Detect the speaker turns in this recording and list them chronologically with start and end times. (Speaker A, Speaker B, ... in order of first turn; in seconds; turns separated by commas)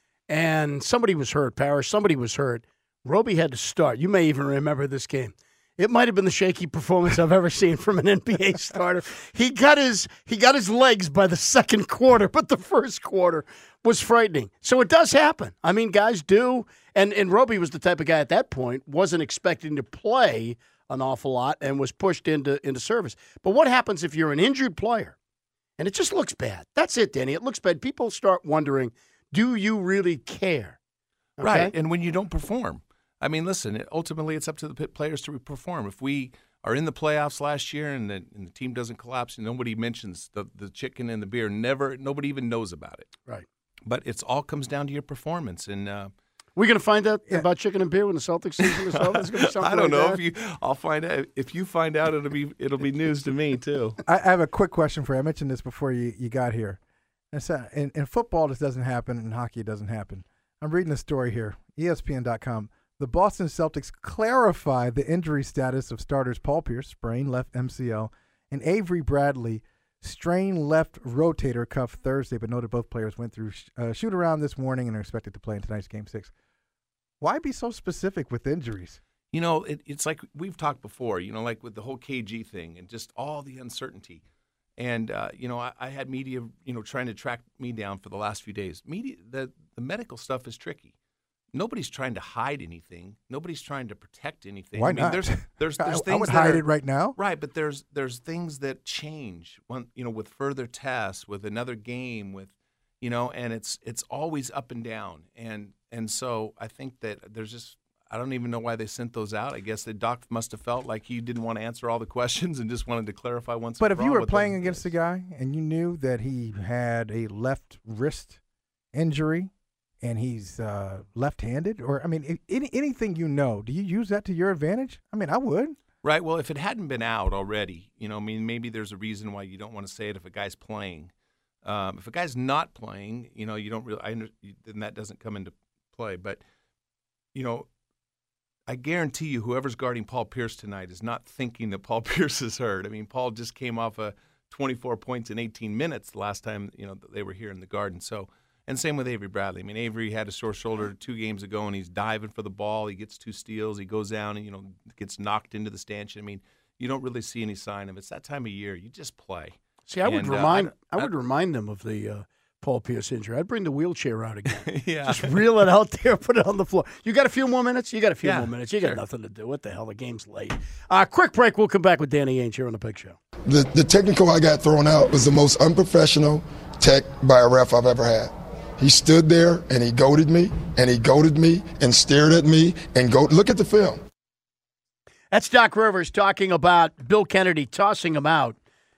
Speaker A: 0.3-25.1, Speaker A: 25.8-30.8, Speaker A: 31.4-31.7, Speaker B: 31.4-43.1, Speaker B: 43.9-46.1, Speaker A: 46.5-50.2, Speaker B: 48.7-54.0, Speaker C: 54.1-56.8, Speaker C: 57.3-76.3, Speaker C: 77.2-79.0, Speaker B: 79.3-84.2, Speaker B: 84.8-90.9, Speaker B: 91.5-96.6, Speaker C: 94.8-97.2, Speaker B: 97.2-114.9, Speaker C: 113.8-118.4, Speaker C: 118.9-125.8, Speaker B: 126.0-131.1, Speaker B: 131.6-136.4, Speaker B: 137.3-137.7, Speaker B: 138.7-161.1, Speaker A: 159.9-173.2, Speaker B: 164.6-165.4, Speaker B: 168.2-169.0, Speaker D: 173.4-184.0, Speaker A: 185.3-188.6